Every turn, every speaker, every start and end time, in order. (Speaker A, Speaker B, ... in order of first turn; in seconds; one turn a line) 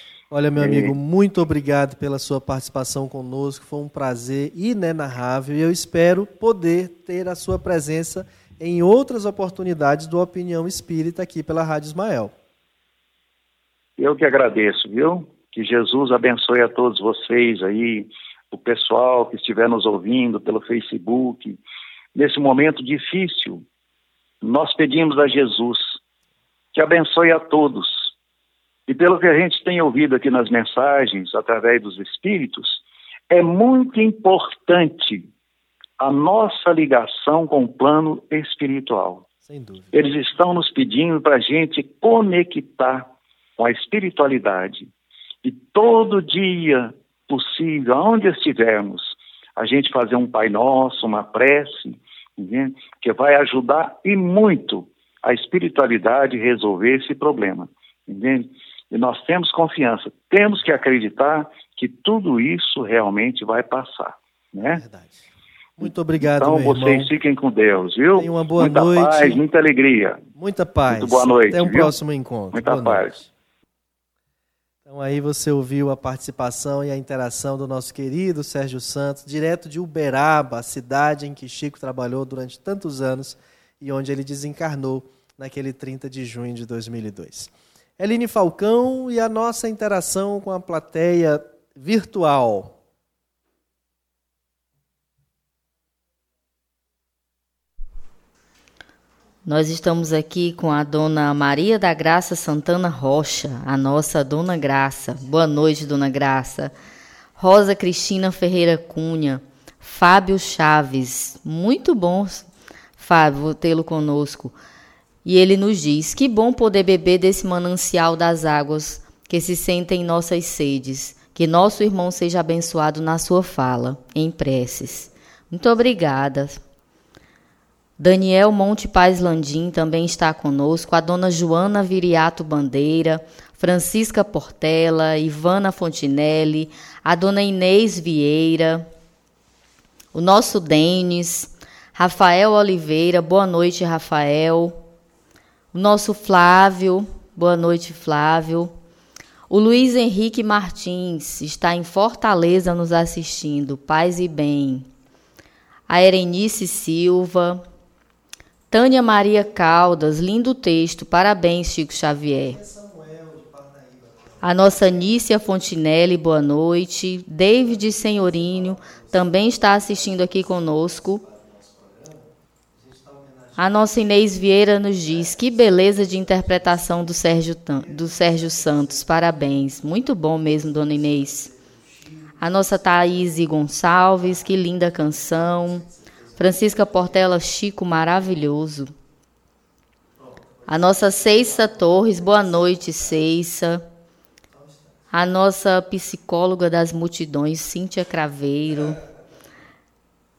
Speaker A: 0.3-12.3
Speaker B: 0.6-0.9
Speaker B: 14.0-21.6
Speaker B: 22.1-23.6
Speaker B: 24.4-26.0
Speaker B: 26.7-28.1
Speaker B: 28.9-35.3
Speaker B: 36.0-39.2
Speaker A: 39.4-39.9
Speaker B: 39.9-44.9
Speaker B: 45.4-64.8
Speaker A: 64.7-67.1
Speaker B: 66.2-70.2
Speaker A: 68.2-69.4
Speaker A: 70.3-73.3
Speaker B: 70.9-71.9
Speaker B: 72.5-73.2
Speaker A: 74.8-92.7
Speaker C: 99.4-106.7
Speaker C: 107.4-112.5
Speaker C: 113.0-114.5
Speaker C: 115.2-126.6
Speaker C: 128.0-138.9
Speaker C: 140.1-144.8
Speaker C: 145.7-148.7
Speaker C: 149.5-154.9
Speaker C: 155.9-157.6
Speaker C: 158.7-162.6
Speaker A: 162.4-165.1
Speaker C: 164.4-171.2
Speaker A: 167.7-173.8
Speaker C: 173.6-181.5
Speaker A: 175.1-177.1
Speaker A: 177.8-179.4
Speaker A: 180.4-182.3
Speaker C: 182.4-188.9
Speaker A: 185.7-186.9
Speaker A: 190.2-192.2
Speaker C: 190.7-193.8
Speaker A: 194.5-194.8
Speaker C: 195.1-199.0